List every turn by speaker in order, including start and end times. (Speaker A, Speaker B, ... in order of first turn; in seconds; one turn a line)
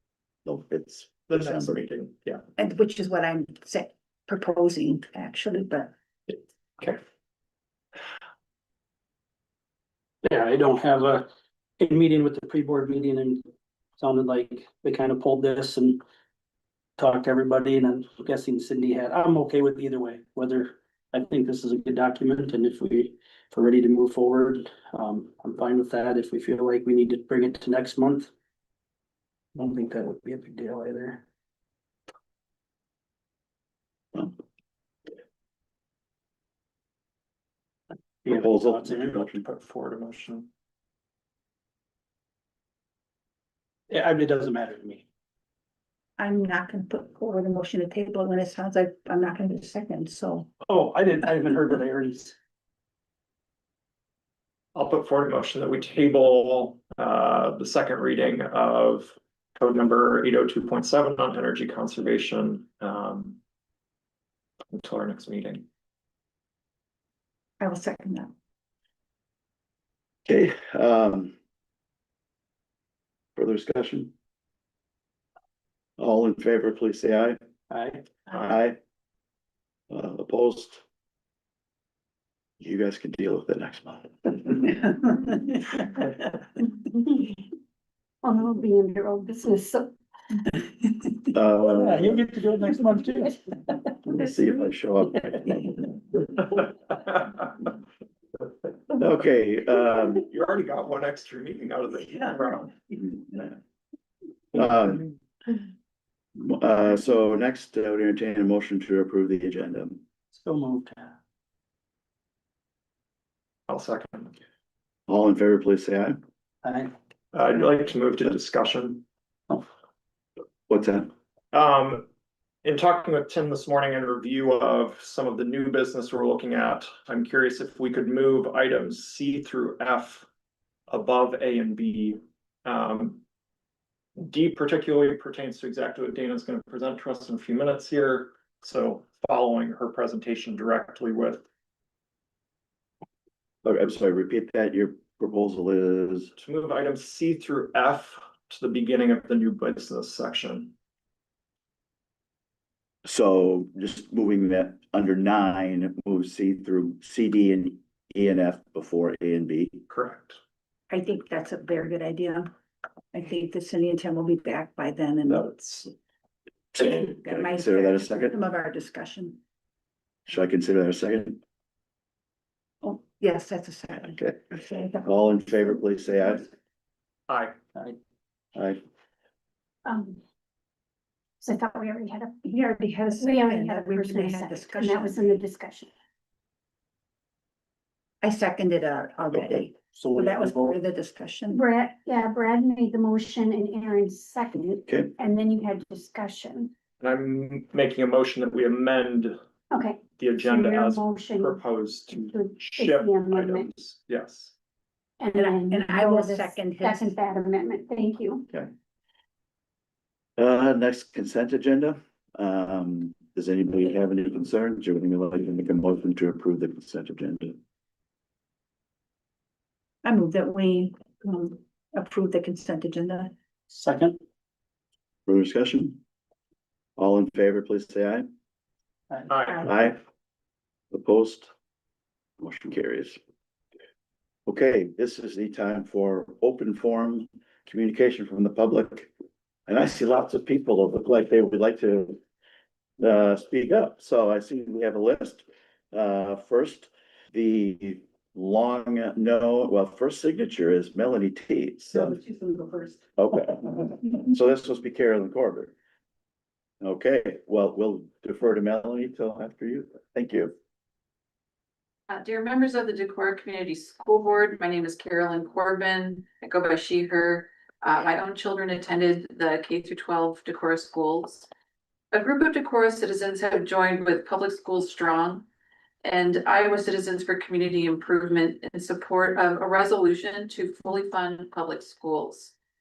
Speaker A: 0.5-1.7
Speaker B: 1.3-2.4
Speaker C: 2.6-5.9
Speaker D: 10.2-13.4
Speaker D: 14.0-16.0
Speaker D: 17.0-28.3
Speaker D: 29.5-31.2
Speaker D: 38.2-39.1
Speaker A: 38.3-39.4
Speaker B: 39.0-40.5
Speaker D: 43.9-45.0
Speaker C: 46.2-50.5
Speaker D: 50.6-52.4
Speaker B: 54.7-63.4
Speaker B: 64.7-65.7
Speaker C: 67.6-68.3
Speaker A: 70.3-71.3
Speaker A: 73.3-74.1
Speaker A: 76.0-77.4
Speaker D: 77.7-78.0
Speaker A: 78.3-78.8
Speaker A: 79.9-80.8
Speaker A: 82.6-84.8
Speaker E: 88.2-89.9
Speaker A: 91.3-92.3
Speaker D: 91.7-93.4
Speaker A: 94.0-95.7
Speaker B: 96.6-97.4
Speaker A: 98.9-100.2
Speaker B: 100.2-102.7
Speaker A: 104.5-105.0
Speaker A: 106.3-110.0
Speaker D: 110.3-111.1
Speaker B: 113.7-114.3
Speaker A: 115.1-116.2
Speaker D: 116.6-116.9
Speaker B: 117.3-119.0
Speaker A: 120.7-121.1
Speaker B: 121.5-122.1
Speaker B: 122.6-130.2
Speaker B: 130.9-133.2
Speaker B: 134.2-141.4
Speaker A: 143.6-146.3
Speaker B: 146.4-150.7
Speaker A: 153.0-159.8
Speaker B: 159.9-160.4
Speaker C: 160.9-162.5
Speaker C: 163.1-165.9
Speaker A: 166.7-168.3
Speaker C: 166.8-169.4
Speaker A: 170.3-171.4
Speaker C: 172.8-175.1
Speaker A: 174.1-176.5
Speaker B: 177.3-177.6
Speaker E: 179.8-180.2
Speaker E: 181.4-182.4
Speaker C: 182.4-185.4
Speaker E: 183.1-185.9
Speaker C: 188.2-191.6
Speaker D: 190.0-190.7
Speaker E: 191.5-196.7
Speaker A: 194.9-195.1
Speaker B: 197.0-199.4
Speaker E: 199.7-203.7
Speaker B: 200.2-204.5
Speaker E: 205.2-208.5
Speaker C: 205.3-207.1
Speaker A: 210.4-217.6
Speaker C: 220.0-223.3
Speaker D: 223.7-224.2
Speaker A: 225.2-226.0
Speaker A: 227.0-228.3
Speaker B: 229.3-229.6
Speaker A: 229.5-230.0
Speaker A: 230.9-231.5
Speaker A: 232.4-233.2
Speaker A: 234.5-239.1
Speaker A: 239.7-242.2
Speaker A: 243.0-252.1
Speaker C: 251.9-253.0
Speaker A: 253.2-255.7
Speaker A: 256.8-260.5
Speaker F: 262.1-271.5
Speaker F: 272.1-275.4
Speaker F: 276.0-282.5